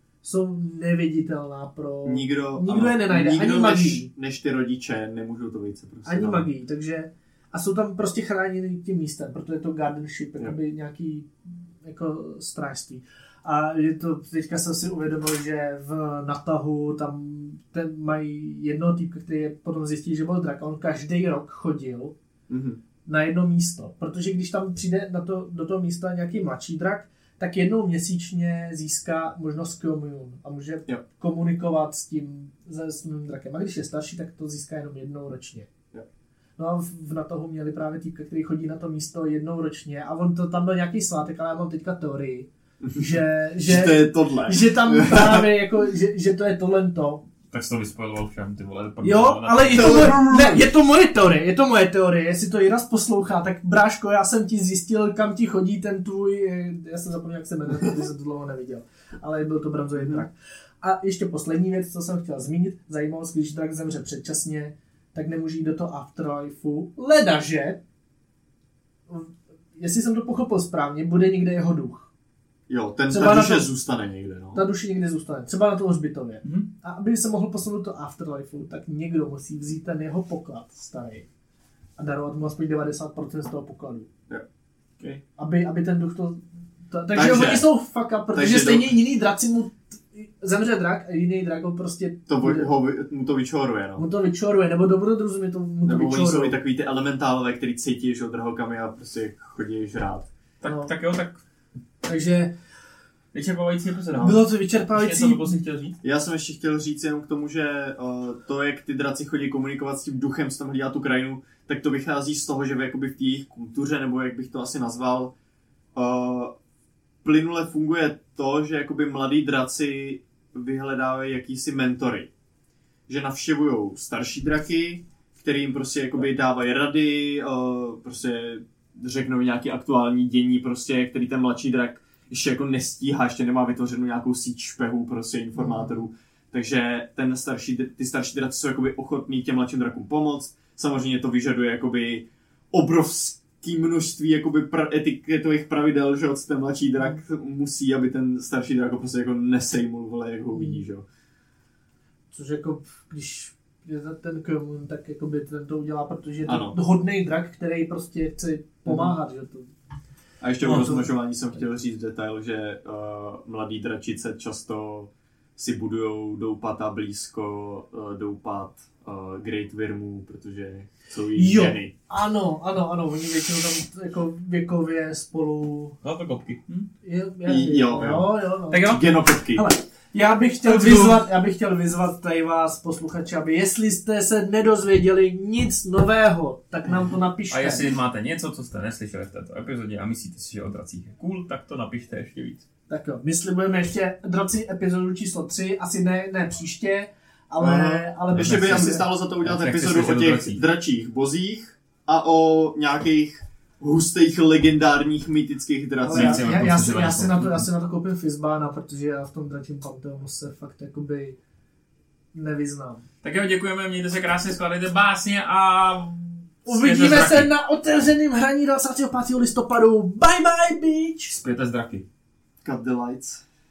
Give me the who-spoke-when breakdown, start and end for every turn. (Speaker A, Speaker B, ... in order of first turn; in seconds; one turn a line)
Speaker A: 0.2-4.1
Speaker B: 2.0-6.5
Speaker A: 6.0-11.3
Speaker A: 11.8-22.1
Speaker B: 22.5-22.8
Speaker A: 23.1-35.7
Speaker A: 36.6-47.2
Speaker B: 42.8-45.5
Speaker C: 47.5-50.2
Speaker A: 49.0-60.3
Speaker B: 49.7-50.6
Speaker B: 60.0-60.2
Speaker A: 60.8-67.8
Speaker A: 69.1-72.1
Speaker B: 72.7-74.6
Speaker A: 73.1-73.7
Speaker A: 74.5-81.3
Speaker C: 76.4-76.7
Speaker A: 82.0-84.1
Speaker A: 85.4-92.7
Speaker B: 87.1-87.7
Speaker B: 88.3-89.0
Speaker B: 92.3-94.0
Speaker A: 94.0-96.6
Speaker B: 95.8-100.3
Speaker C: 100.6-101.4
Speaker A: 100.6-100.9
Speaker A: 102.0-102.5
Speaker C: 103.3-106.0
Speaker A: 104.2-105.6
Speaker B: 106.0-115.3
Speaker B: 116.0-116.5
Speaker B: 117.2-122.3
Speaker B: 123.1-151.1
Speaker A: 152.3-159.7
Speaker B: 156.4-156.8
Speaker B: 158.9-159.1
Speaker B: 160.4-171.9
Speaker A: 160.6-161.0
Speaker C: 160.6-161.0
Speaker A: 171.3-176.0
Speaker C: 176.0-176.9
Speaker A: 177.0-178.9
Speaker B: 177.4-179.7
Speaker C: 178.7-179.0
Speaker A: 179.5-187.9
Speaker C: 180.7-181.1
Speaker C: 187.5-192.7
Speaker A: 192.9-199.1
Speaker B: 197.6-206.5
Speaker C: 198.3-200.6
Speaker A: 206.0-211.4
Speaker C: 206.1-207.7
Speaker A: 212.3-213.1
Speaker C: 213.2-217.5
Speaker A: 216.7-221.4
Speaker C: 221.3-222.1
Speaker B: 222.6-223.4